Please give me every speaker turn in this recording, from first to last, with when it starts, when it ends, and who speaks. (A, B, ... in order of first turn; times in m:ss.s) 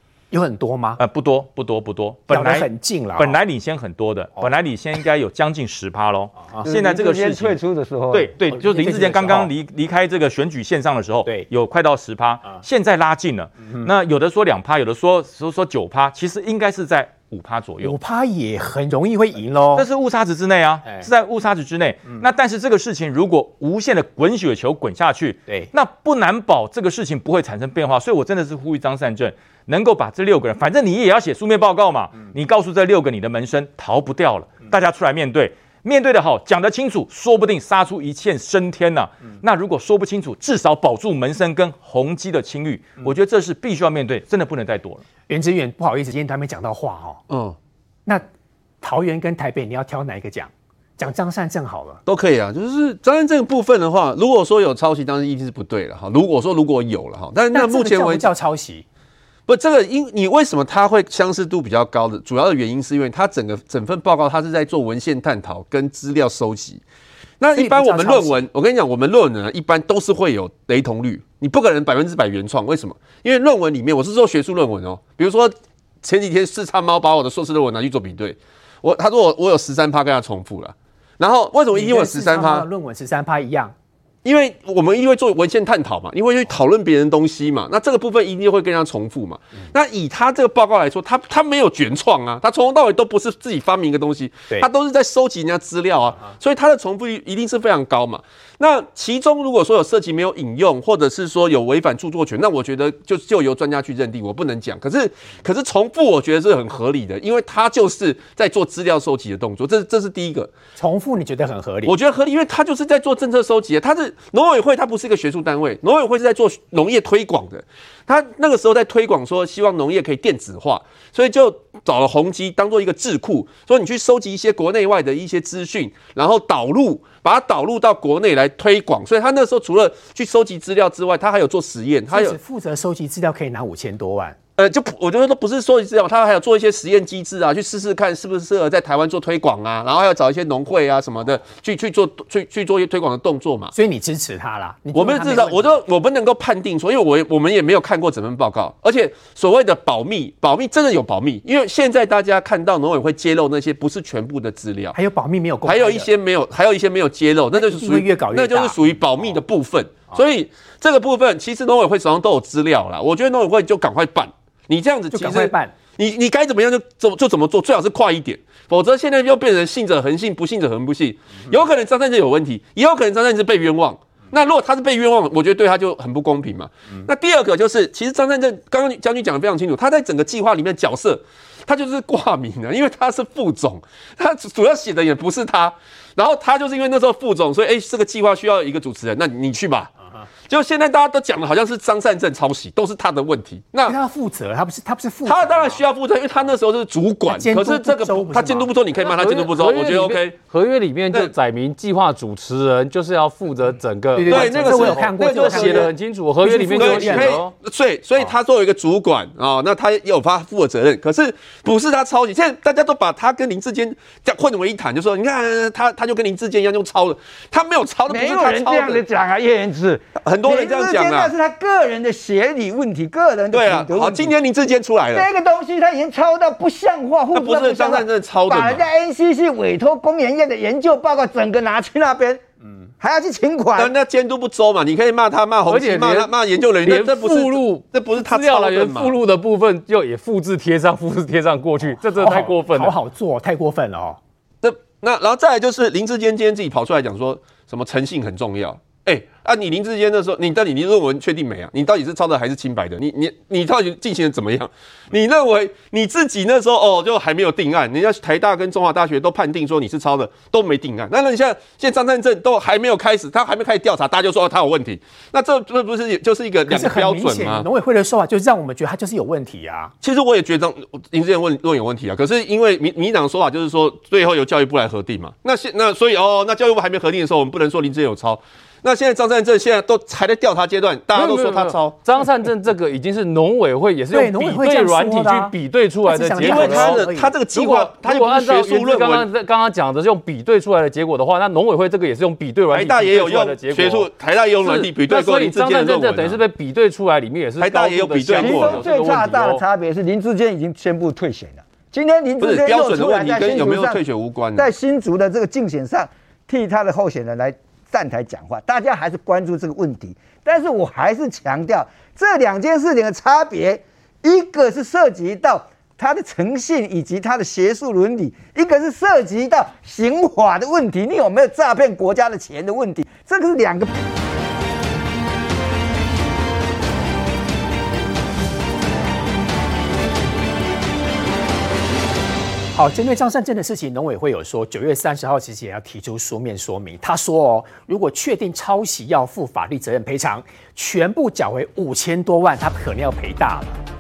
0:00.3-0:01.0 A
0:01.0-0:07.6 B
0:02.3-0:03.4 A
0:06.6-0:08.3 C
0:08.1-0:18.0 B
0:08.5-0:09.5 A
0:17.8-0:19.9 A
0:19.7-0:45.0 B
0:45.3-0:47.2 A
0:47.3-0:47.6 D
0:48.8-0:52.0 A
0:52.0-0:58.3 D
0:57.5-0:58.8 A
0:59.5-1:06.8 D
1:07.4-1:22.7 D
1:07.6-1:08.4 A
1:21.7-1:23.7 A
1:24.2-1:50.5 D
1:50.8-1:51.9 A
1:51.8-2:12.4 D
2:12.1-2:14.4 A
2:14.6-2:23.7 D
2:23.7-2:25.8 A
2:24.9-2:35.0 D
2:34.9-2:36.1 A
2:35.6-3:09.9 D
2:37.5-2:38.8 A
2:45.1-2:45.7 A
3:10.5-3:14.0 D
3:13.9-3:15.8 A
3:15.2-3:20.4 D
3:17.3-3:18.7 A
3:19.0-3:27.5 E
3:24.1-3:27.4 A
3:24.3-3:25.9 D
3:26.7-3:39.0 D
3:38.1-3:44.4 C
3:40.2-3:41.3 D
3:43.5-3:45.3 D
3:45.1-3:52.4 C
3:47.3-3:48.9 D
3:53.0-3:53.9 C
3:53.8-3:59.1 D
3:55.7-3:56.3 E
3:56.8-4:03.0 E
4:02.1-4:04.2 A
4:04.6-4:27.7 D
4:26.7-4:29.9 A
4:30.0-4:42.0 D
4:41.1-4:47.0 E
4:44.1-4:45.5 A
4:46.0-4:47.3 A
4:46.4-4:49.3 D
4:47.5-4:54.1 E
4:52.7-4:56.4 D
4:54.6-4:59.6 E
4:57.6-4:58.8 D
4:58.3-5:04.0 C
5:02.4-5:04.7 D
5:04.5-5:23.9 C
5:32.7-5:43.8 A